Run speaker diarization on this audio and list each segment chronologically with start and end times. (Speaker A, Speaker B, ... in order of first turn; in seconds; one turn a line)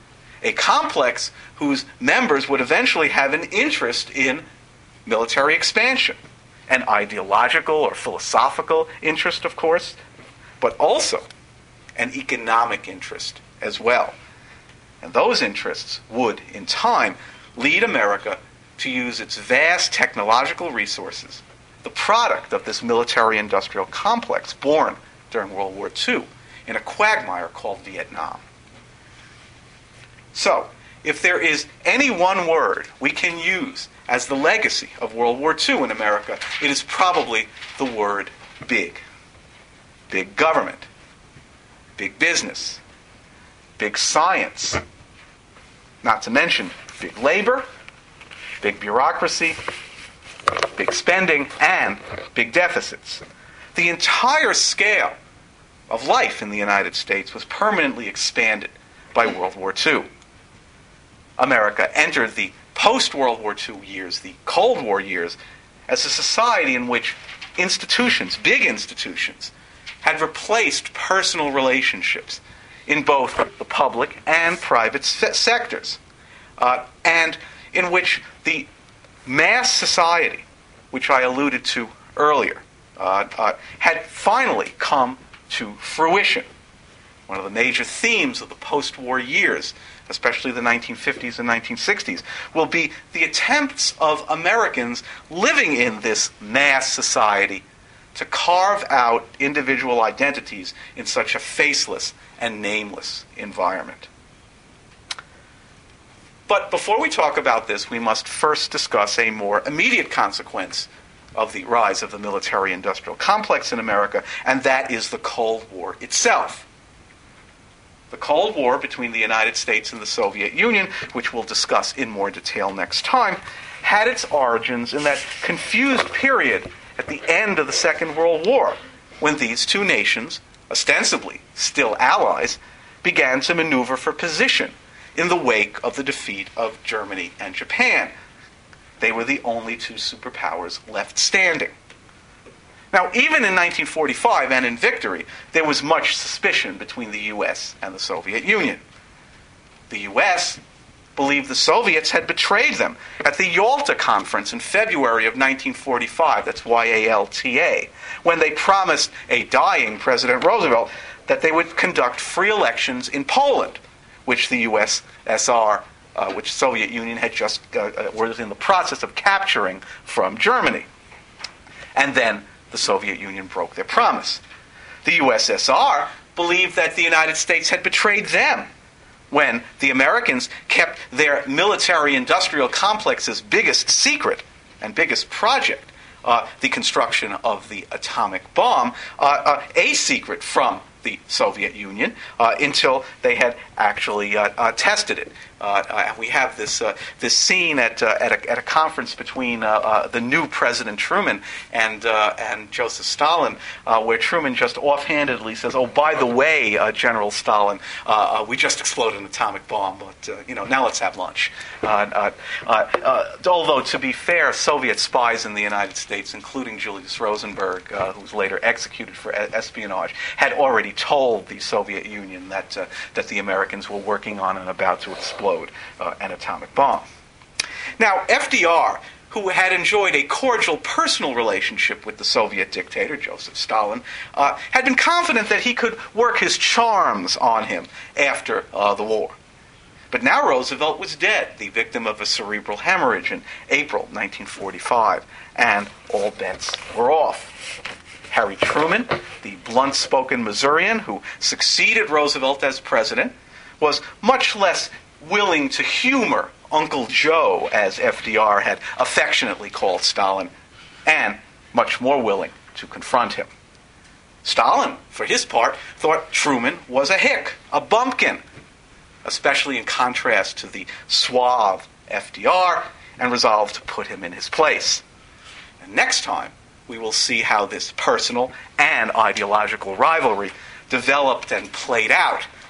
Speaker A: 0.4-4.4
Speaker A: 5.0-6.2
Speaker A: 6.7-10.0
Speaker A: 10.6-11.2
Speaker A: 12.0-14.1
Speaker A: 15.0-28.4
Speaker A: 30.3-39.0
Speaker A: 40.1-40.9
Speaker A: 42.0-42.8
Speaker A: 43.8-44.8
Speaker A: 46.0-47.6
Speaker A: 48.6-49.6
Speaker A: 50.7-53.2
Speaker A: 53.7-55.1
Speaker A: 55.9-60.1
Speaker A: 61.4-65.4
Speaker A: 65.9-76.0
Speaker A: 76.6-78.7
Speaker A: 79.2-86.5
Speaker A: 87.3-97.6
Speaker A: 98.1-104.1
Speaker A: 106.5-116.7
Speaker A: 118.1-138.1
Speaker A: 139.0-141.7
Speaker A: 142.9-148.8
Speaker A: 149.9-150.6
Speaker A: 151.2-170.9
Speaker A: 171.9-174.4
Speaker A: 175.0-178.7
Speaker A: 179.3-227.0
Speaker A: 228.0-239.3
Speaker A: 240.1-247.6
Speaker A: 248.3-260.5
Speaker A: 261.1-263.5
Speaker A: 264.4-268.4
Speaker A: 269.2-275.0
Speaker A: 275.8-282.5